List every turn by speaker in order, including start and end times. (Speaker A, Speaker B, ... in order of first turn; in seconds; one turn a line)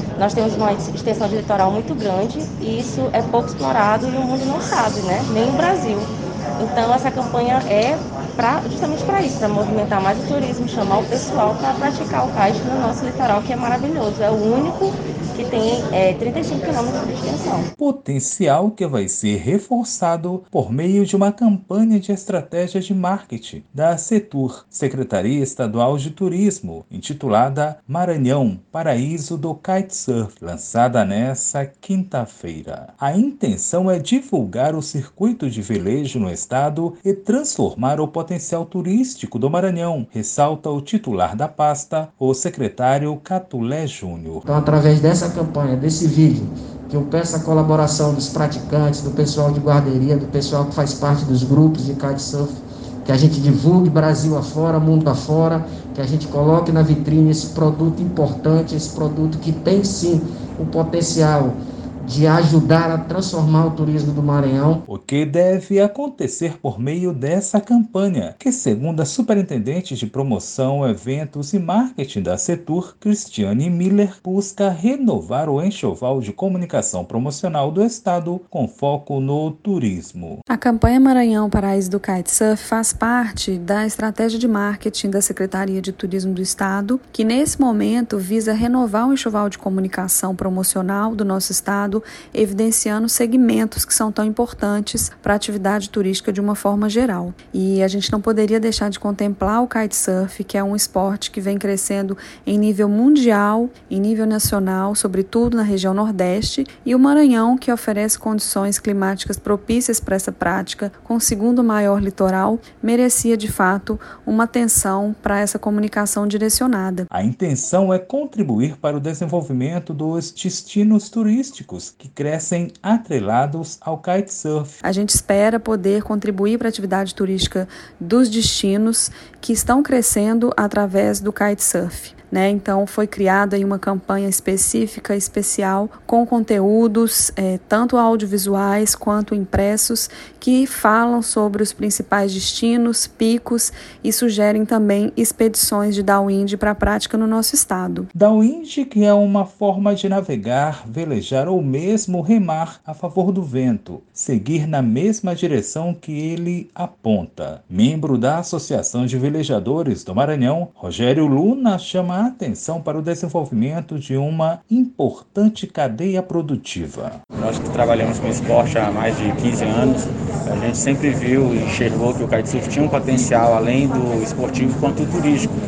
Speaker A: 0.2-17.7
Speaker B: 17.8-44.4
Speaker C: 44.5-64.8
Speaker B: 64.9-80.4
Speaker D: 80.5-117.1
Speaker B: 117.1-124.8
Speaker D: 124.8-148.1
Speaker B: 148.2-167.2
Speaker E: 167.4-175.5